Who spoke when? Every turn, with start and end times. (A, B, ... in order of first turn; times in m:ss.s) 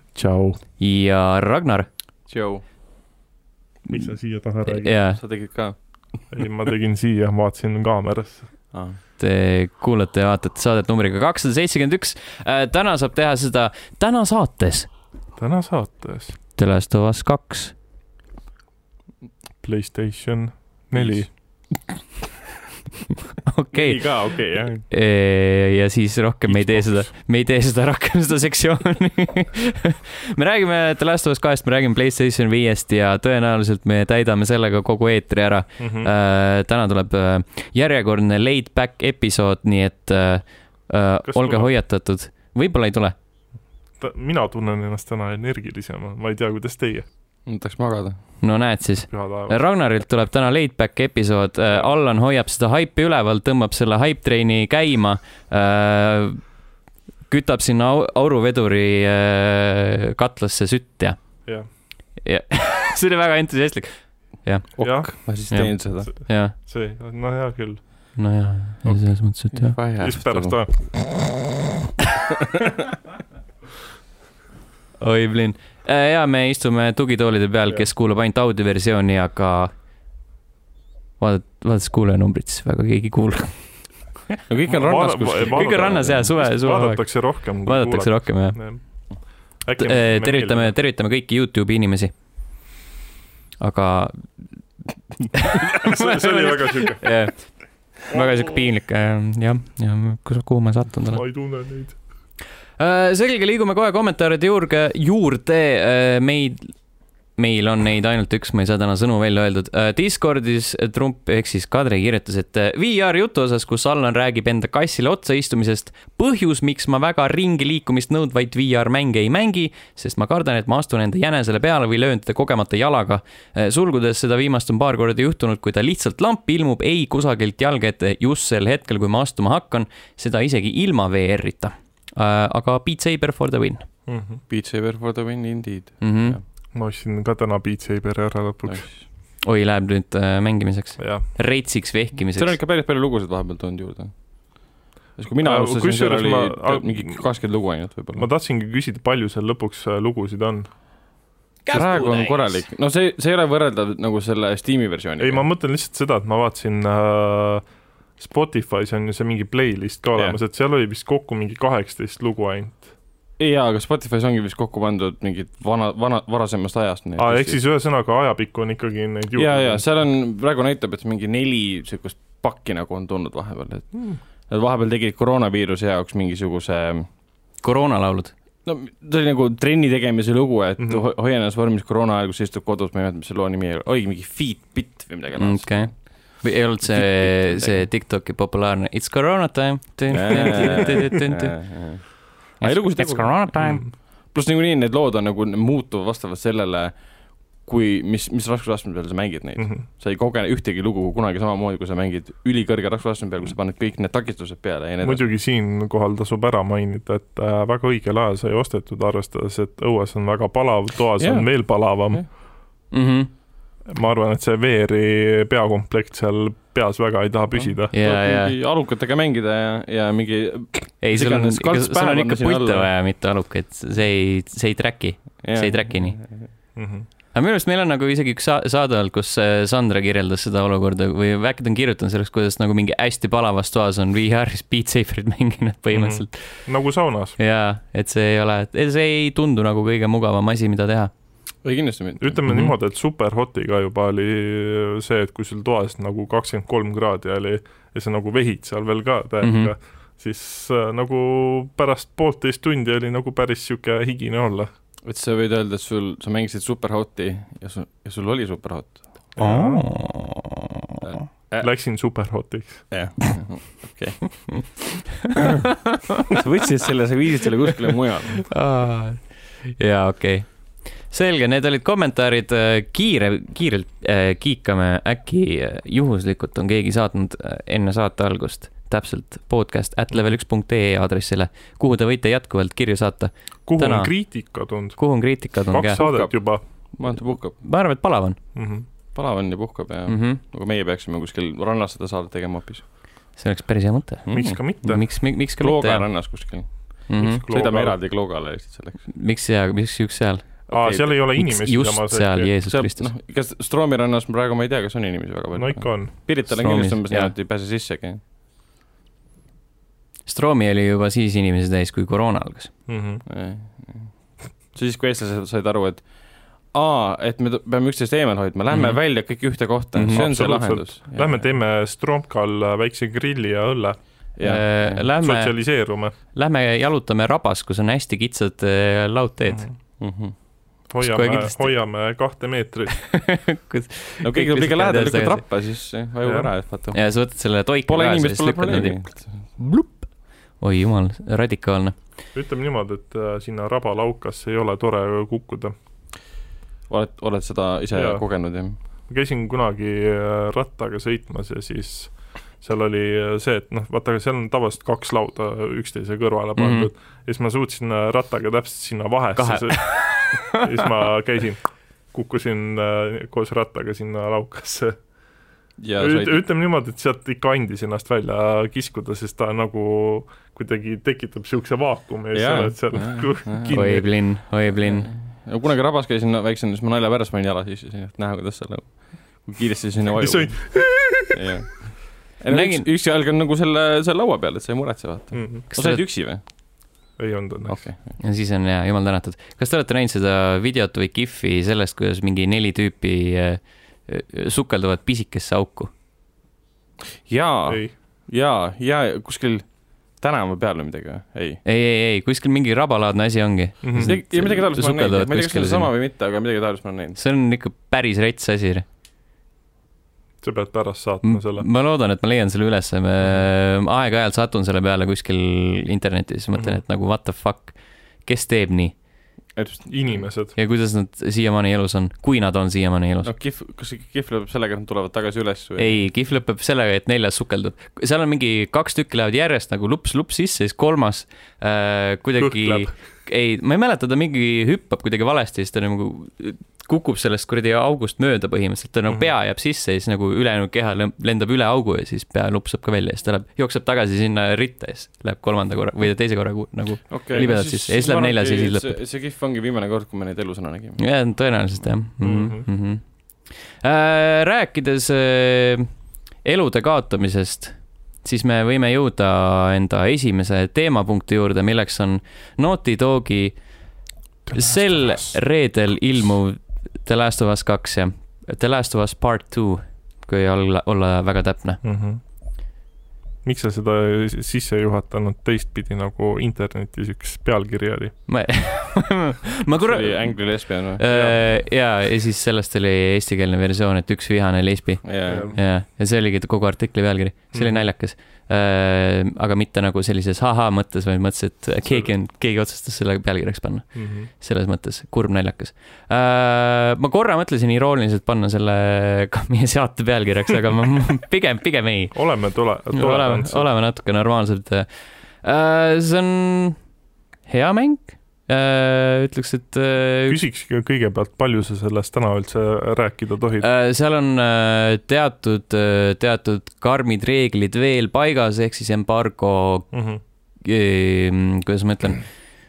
0:00.1-0:00.6 A
0:00.8-0:01.9 B
0:02.3-0:02.6 C
0:03.9-0:04.9 A
0:04.6-0:05.2 B
0:05.2-0:05.8 C
0:06.3-0:08.5 A
0:08.7-0:09.0 C
0:09.2-0:14.9 B
0:15.4-0:16.4 A
0:16.6-0:17.7 B
0:19.6-0:21.3 A
0:23.4-0:24.1 B
0:23.7-0:24.8 C
0:24.9-0:43.1 B
0:26.5-0:27.0 A
0:35.8-0:36.1 A
0:41.2-0:41.7 A
0:44.0-0:47.0 A
0:47.5-0:48.2 C
0:48.4-0:56.4 B
0:49.1-0:49.6 A
0:57.3-1:01.2 B
1:02.2-1:06.5 B
1:04.8-1:05.1 A
1:05.2-1:06.1 C
1:05.7-1:08.1 A
1:08.2-1:09.8 B
1:08.8-1:09.1 A
1:09.5-1:10.6 C
1:10.0-1:11.0 A
1:15.0-1:19.7 B
1:21.2-1:23.8 B
1:24.5-1:26.2 C
1:24.7-1:28.8 A
1:25.5-1:28.6 B
1:29.6-1:30.7 A
1:29.8-1:32.1 B
1:33.6-1:34.3 B
1:35.3-1:41.2 B
1:35.6-1:37.1 A
1:38.1-1:38.6 A
1:41.1-1:42.0 A
1:42.8-1:46.7 B
1:47.4-2:13.9 B
2:14.1-2:14.4 A
2:14.5-2:16.4 C
2:16.0-2:16.4 B
2:16.7-2:18.8 A
2:19.4-2:22.6 B
2:21.0-2:21.3 A
2:22.3-2:24.6 C
2:25.2-2:28.2 C
2:25.4-2:27.2 A
2:28.1-2:30.7 A
2:31.6-2:32.6 B
2:31.7-2:35.4 C
2:35.2-2:37.6 A
2:38.2-2:42.9 A
2:43.4-2:47.6 C
2:47.2-2:49.8 A
2:49.4-2:57.1 C
2:53.9-2:54.2 A
2:57.6-2:58.3 B
2:58.6-3:07.8 C
3:00.8-3:01.0 A
3:05.4-3:11.6 B
3:10.1-3:17.0 C
3:12.6-3:13.8 B
3:13.6-3:13.9 A
3:17.6-3:25.2 C
3:19.6-3:19.8 A
3:25.0-3:32.2 A
3:31.2-3:32.2 C
3:32.9-3:33.3 B
3:33.8-3:37.9 A
3:37.6-3:42.9 C
3:37.9-3:38.5 B
3:41.0-3:46.2 B
3:45.4-3:46.4 C
3:46.8-3:47.1 A
3:47.3-3:56.7 B
3:55.9-3:57.4 A
3:57.4-4:01.1 B
4:01.6-4:02.4 C
4:02.2-4:14.7 A
4:09.4-4:09.7 B
4:15.0-4:19.3 C
4:19.4-4:19.9 A
4:19.4-4:20.6 B
4:21.0-4:21.7 C
4:21.6-4:22.9 A
4:22.9-4:28.5 C
4:28.5-4:44.1 B
4:43.6-4:45.1 A
4:45.0-4:46.0 B
4:45.7-4:46.6 A
4:45.9-4:46.4 C
4:46.9-4:47.6 C
4:47.5-4:48.4 B
4:48.5-4:48.8 A
4:49.1-4:52.9 C
4:50.1-4:50.4 B
4:53.4-4:56.0 B
4:54.3-4:55.0 A
4:55.2-4:59.1 C
4:57.1-4:57.4 B
4:57.2-4:58.0 A
4:59.1-5:00.7 B
5:00.7-5:02.5 A
5:00.7-5:01.1 C
5:01.3-5:03.1 B
5:02.7-5:08.2 C
5:05.5-5:06.1 A
5:06.4-5:07.3 B
5:10.3-5:12.7 B
5:12.9-5:13.2 A
5:13.3-5:14.1 C
5:14.7-5:16.0 C
5:16.7-5:21.4 C
5:18.7-5:19.0 B
5:19.9-5:20.2 B
5:20.1-5:24.0 A
5:24.4-5:25.1 C
5:24.4-5:25.5 B
5:25.2-5:26.1 A
5:26.3-5:29.7 B
5:30.0-5:30.3 C
5:30.9-5:33.0 A
5:31.0-5:31.7 B
5:32.9-5:35.4 B
5:34.2-5:37.1 C
5:36.9-5:39.1 B
5:37.8-5:39.3 C
5:39.6-5:40.0 B
5:40.6-5:41.9 B
5:42.3-5:45.7 A
5:46.9-5:48.8 C
5:47.9-5:48.2 A
5:49.1-6:05.0 A
5:56.6-5:56.9 B
5:59.4-6:00.7 B
6:05.8-6:06.4 C
6:06.0-6:14.1 A
6:12.3-6:14.1 C
6:13.7-6:15.1 B
6:14.7-6:26.4 C
6:20.2-6:21.4 A
6:22.5-6:22.8 B
6:25.3-6:25.6 A
6:25.7-6:26.0 B
6:27.2-6:27.8 A
6:27.7-6:28.0 C
6:28.2-6:35.9 B
6:37.3-6:41.6 C
6:37.7-6:37.9 A
6:41.6-6:45.9 B
6:43.8-6:44.1 A
6:44.0-6:47.2 C
6:47.2-6:48.8 B
6:50.4-6:51.7 A
6:51.2-6:58.9 B
6:56.5-6:56.8 A
6:59.6-7:00.2 C
6:59.9-7:00.6 A
7:00.6-7:03.3 B
7:03.2-7:06.0 C
7:05.8-7:28.9 B
7:12.4-7:12.9 A
7:27.1-7:31.0 C
7:31.0-7:35.9 B
7:32.2-7:32.7 A
7:36.4-7:43.5 B
7:44.5-7:51.8 B
7:51.8-7:52.2 A
7:53.4-7:58.1 A
7:58.3-8:22.2 B
7:59.8-8:01.0 C
8:01.1-8:01.5 A
8:05.0-8:05.5 C
8:05.3-8:05.6 A
8:07.5-8:07.8 A
8:13.9-8:14.3 A
8:22.1-8:23.6 A
8:22.9-8:24.9 B
8:25.4-8:26.8 B
8:27.5-8:30.4 B
8:30.3-8:33.7 A
8:33.6-8:39.9 B
8:39.9-8:40.2 A
8:40.6-8:42.2 B